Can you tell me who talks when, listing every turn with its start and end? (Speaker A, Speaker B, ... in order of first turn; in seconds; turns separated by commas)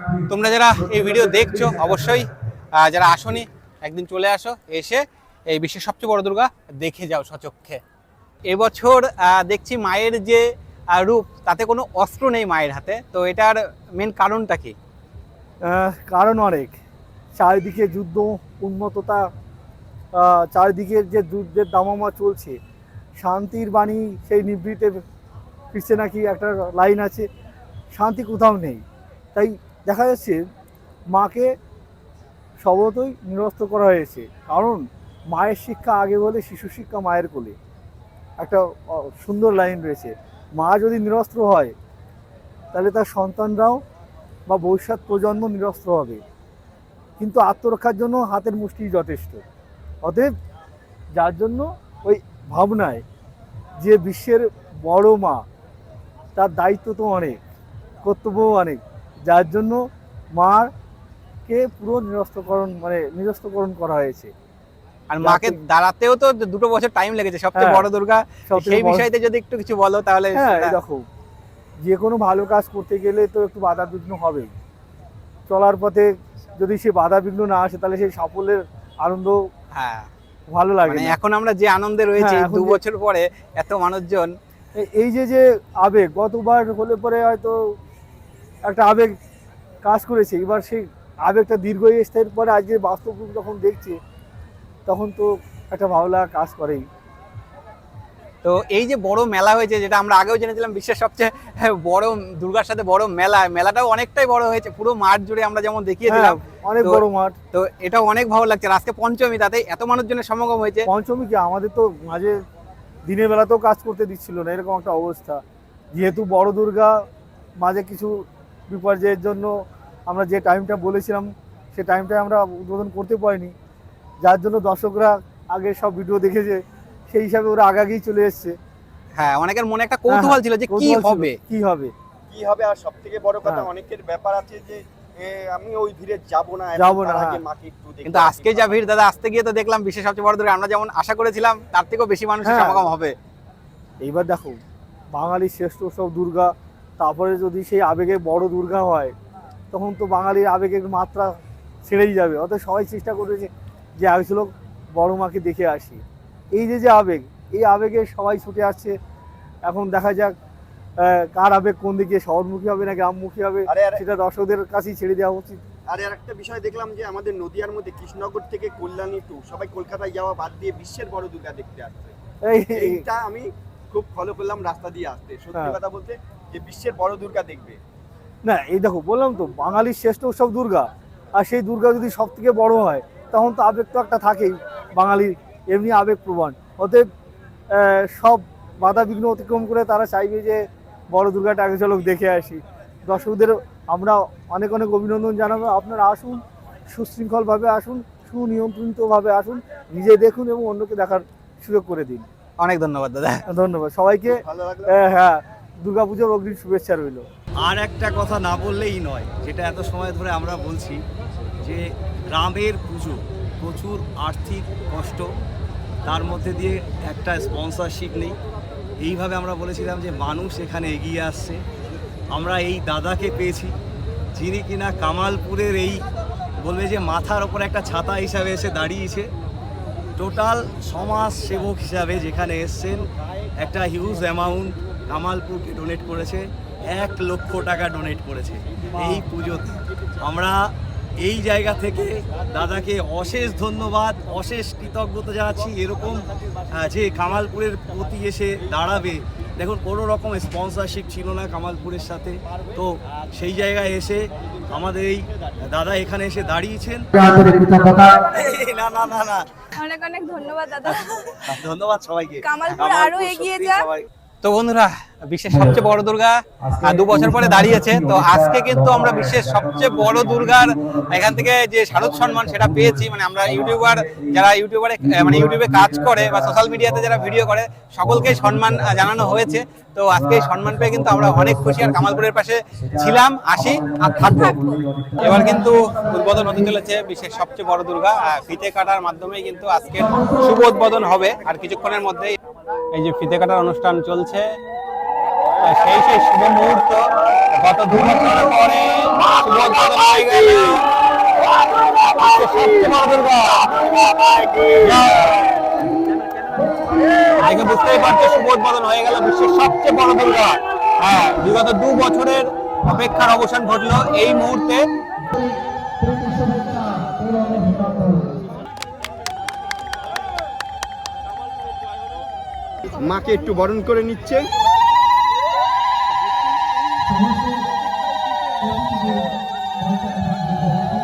Speaker A: 0.3-7.8, Speaker A: 8.4-14.7, Speaker B: 15.6-16.8, Speaker B: 17.4-19.3, Speaker B: 20.1-22.6, Speaker B: 23.2-25.0, Speaker B: 25.7-27.3, Speaker B: 27.9-28.8, Speaker B: 29.3-30.4, Speaker B: 31.1-31.5, Speaker B: 32.6-37.5, Speaker B: 38.4-41.7, Speaker B: 42.7-43.8, Speaker B: 44.5-46.2, Speaker B: 47.2-49.4, Speaker B: 50.0-50.3, Speaker B: 51.1-53.0, Speaker B: 53.8-55.4, Speaker B: 56.4-57.4, Speaker B: 58.0-60.7, Speaker B: 61.5-64.3, Speaker A: 65.1-70.8, Speaker B: 65.2-65.6, Speaker B: 67.5-67.9, Speaker B: 68.5-69.1, Speaker B: 70.3-71.0, Speaker B: 71.8-74.5, Speaker B: 75.5-79.4, Speaker A: 79.7-80.1, Speaker B: 80.5-81.2, Speaker A: 80.8-84.3, Speaker B: 82.2-82.8, Speaker B: 84.7-87.6, Speaker B: 88.6-89.1, Speaker B: 89.8-94.0, Speaker B: 94.8-96.8, Speaker A: 98.4-107.0, Speaker B: 106.0-107.3, Speaker A: 107.5-110.9, Speaker B: 110.9-112.4, Speaker B: 113.0-115.4, Speaker B: 115.9-116.9, Speaker B: 117.6-118.1, Speaker B: 118.7-119.5, Speaker B: 120.1-123.5, Speaker B: 124.2-126.6, Speaker B: 127.1-128.5, Speaker A: 129.2-131.4, Speaker B: 130.1-131.9, Speaker C: 132.3-138.8, Speaker B: 136.8-137.4, Speaker A: 138.0-143.1, Speaker B: 142.4-142.9, Speaker B: 144.0-144.6, Speaker B: 145.1-149.1, Speaker B: 149.7-151.3, Speaker B: 151.8-158.9, Speaker B: 159.7-160.3, Speaker B: 161.0-165.6, Speaker C: 163.7-164.0, Speaker C: 165.9-172.1, Speaker B: 172.4-173.0, Speaker C: 172.7-177.8, Speaker B: 178.4-187.1, Speaker B: 187.7-202.3, Speaker A: 202.6-203.4, Speaker B: 203.5-207.2, Speaker C: 204.3-205.0, Speaker D: 207.6-211.0, Speaker D: 211.6-215.3, Speaker D: 216.0-218.4, Speaker D: 219.0-221.6, Speaker D: 222.3-223.8, Speaker D: 224.3-226.0, Speaker D: 226.6-229.3, Speaker D: 230.2-257.1, Speaker D: 257.6-259.5, Speaker E: 259.7-261.5, Speaker D: 260.8-264.1, Speaker E: 262.4-263.9, Speaker A: 264.4-284.6, Speaker D: 266.7-274.4, Speaker D: 275.0-277.4, Speaker D: 278.0-279.6, Speaker D: 280.2-282.3, Speaker D: 282.9-285.5, Speaker E: 284.2-284.6, Speaker A: 285.2-292.4, Speaker A: 292.9-294.5, Speaker A: 295.6-300.9, Speaker A: 301.9-303.9, Speaker A: 304.7-305.7, Speaker A: 307.3-314.8, Speaker C: 322.9-324.5, Speaker B: 328.7-329.2, Speaker B: 329.9-330.9